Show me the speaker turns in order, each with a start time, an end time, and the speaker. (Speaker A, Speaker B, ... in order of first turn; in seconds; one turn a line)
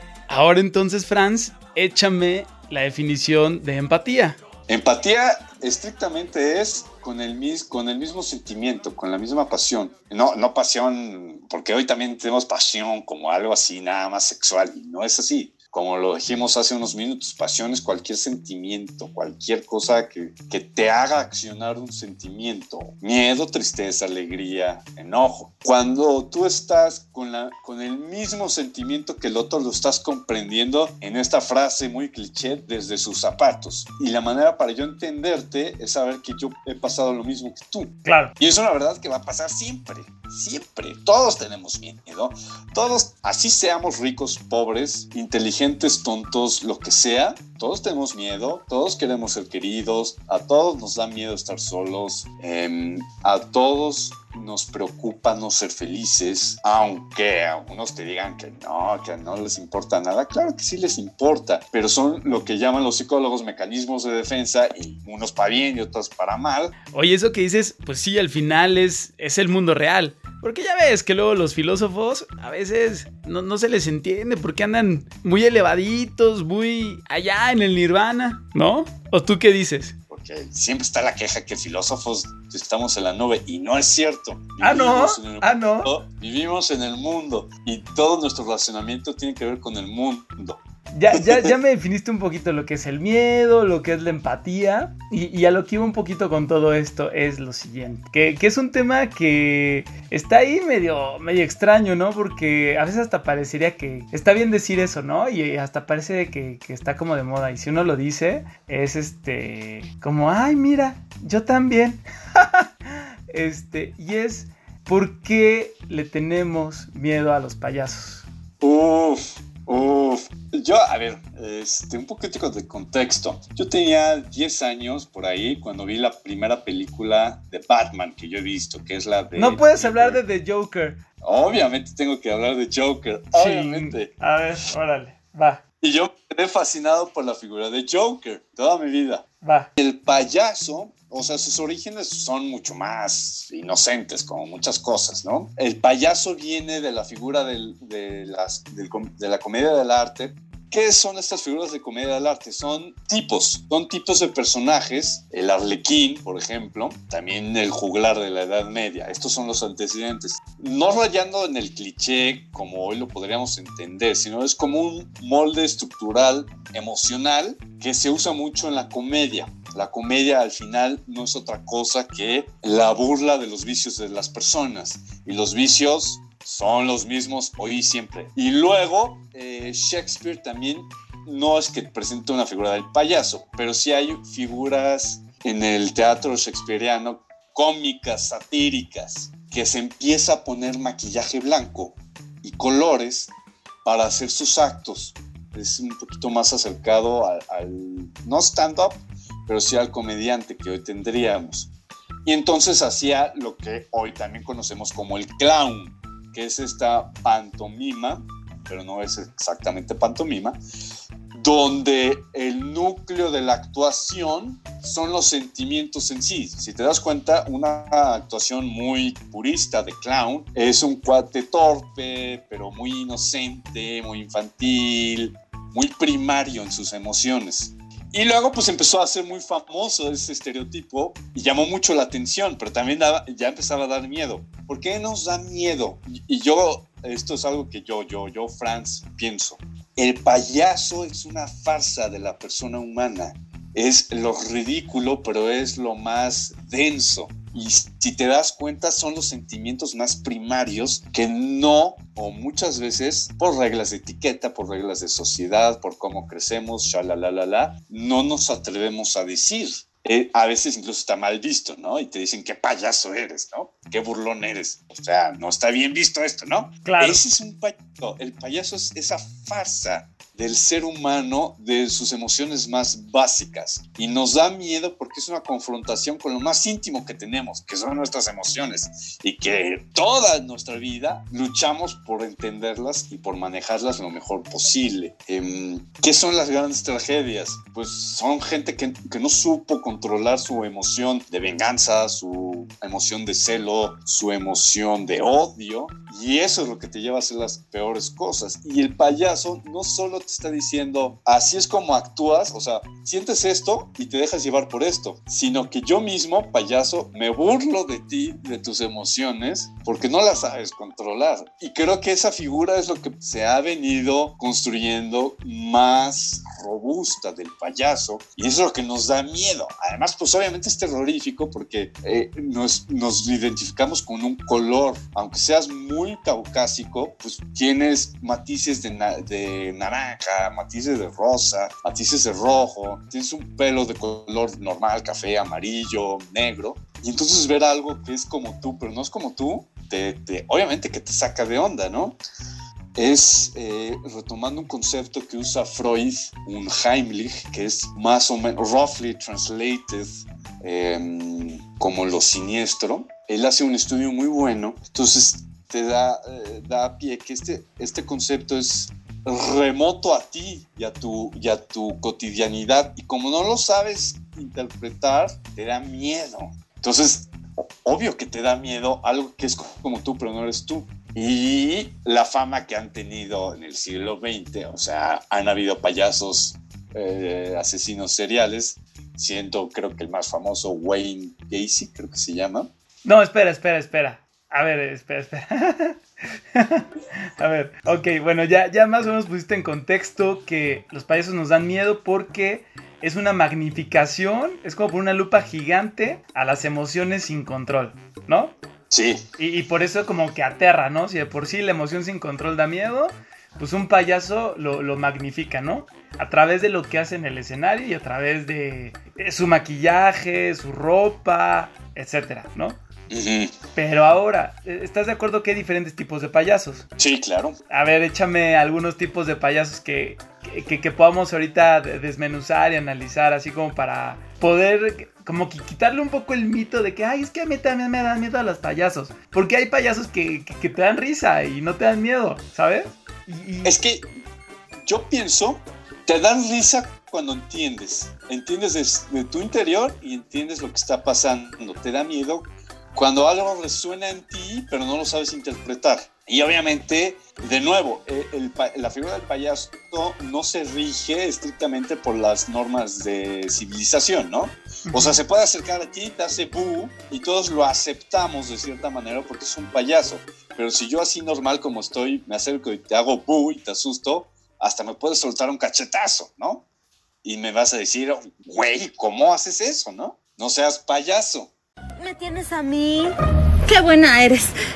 Speaker A: 0.3-4.4
Speaker B: 4.7-66.8
Speaker A: 38.0-38.3
Speaker A: 66.9-80.0
Speaker B: 80.1-90.6
Speaker A: 84.6-85.9
Speaker A: 90.9-118.2
Speaker B: 91.1-91.5
Speaker B: 118.6-130.2
Speaker A: 129.3-131.0
Speaker B: 131.2-134.1
Speaker A: 133.3-135.6
Speaker B: 135.8-139.2
Speaker A: 139.4-139.7
Speaker B: 139.8-193.3
Speaker B: 193.8-201.7
Speaker B: 202.2-210.6
Speaker B: 211.3-342.2
Speaker A: 266.9-267.2
Speaker B: 343.0-382.7
Speaker A: 383.1-386.0
Speaker A: 386.6-386.9
Speaker A: 387.4-398.5
Speaker B: 398.9-399.3
Speaker A: 399.4-412.8
Speaker B: 413.1-413.6
Speaker A: 413.8-416.9
Speaker B: 417.0-417.6
Speaker A: 417.7-433.7
Speaker B: 433.6-434.1
Speaker B: 434.8-466.6
Speaker A: 454.9-455.2
Speaker B: 467.2-471.5
Speaker C: 472.0-473.1
Speaker C: 473.7-474.5